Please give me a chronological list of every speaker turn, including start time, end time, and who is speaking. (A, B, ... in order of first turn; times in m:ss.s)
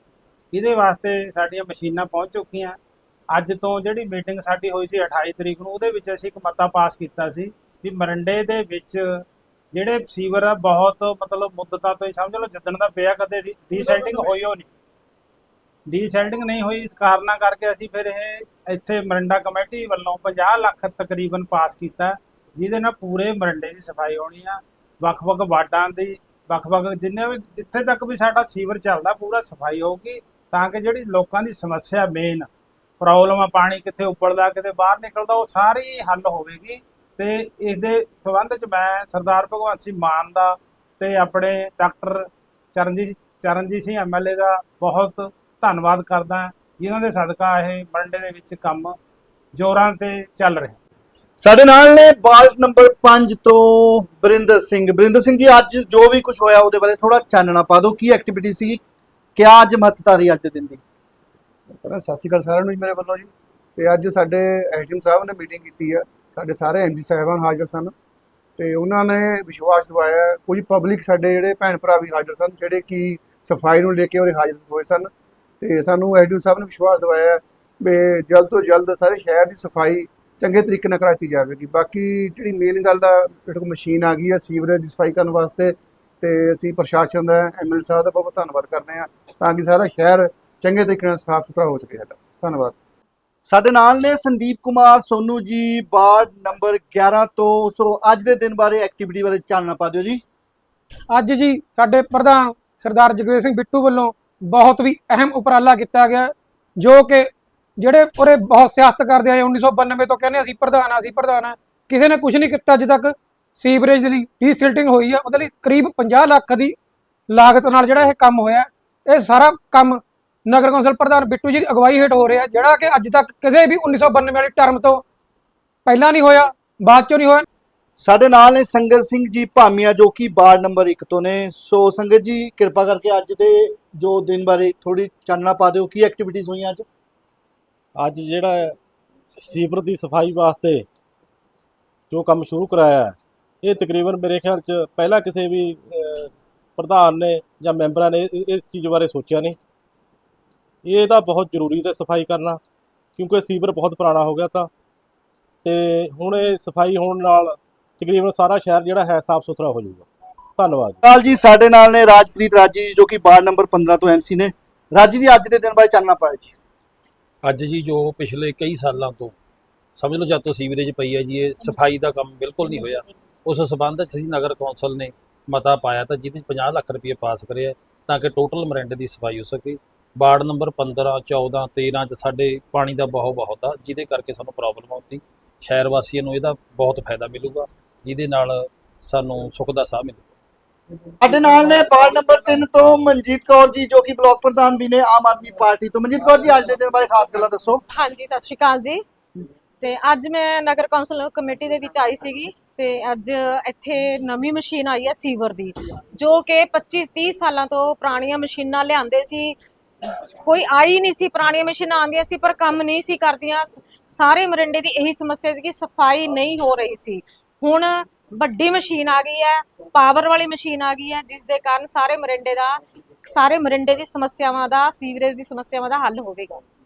0:00.5-0:02.8 A
0:03.3-0:14.7 A
0:15.9-0:32.5 A
0:33.0-0:49.0 A
0:49.5-0:50.8 A
0:51.4-0:58.8 B
0:59.4-1:00.8 B
1:01.8-1:07.9 C
1:08.6-1:32.8 C
1:33.5-1:40.2 B
1:41.1-1:56.8 D
1:57.3-2:05.0 D
2:05.9-2:07.4 D
2:08.0-2:16.9 B
2:18.0-2:18.8 E
2:19.4-2:20.9 E
2:22.1-2:29.6 E
2:30.8-2:32.6 E
2:33.2-2:34.7 E
2:35.6-2:41.0 E
2:41.0-2:46.6 B
2:47.4-2:49.3 F
2:50.0-3:10.3 F
3:11.2-3:17.8 B
3:17.9-3:19.0 G
3:19.8-3:46.6 G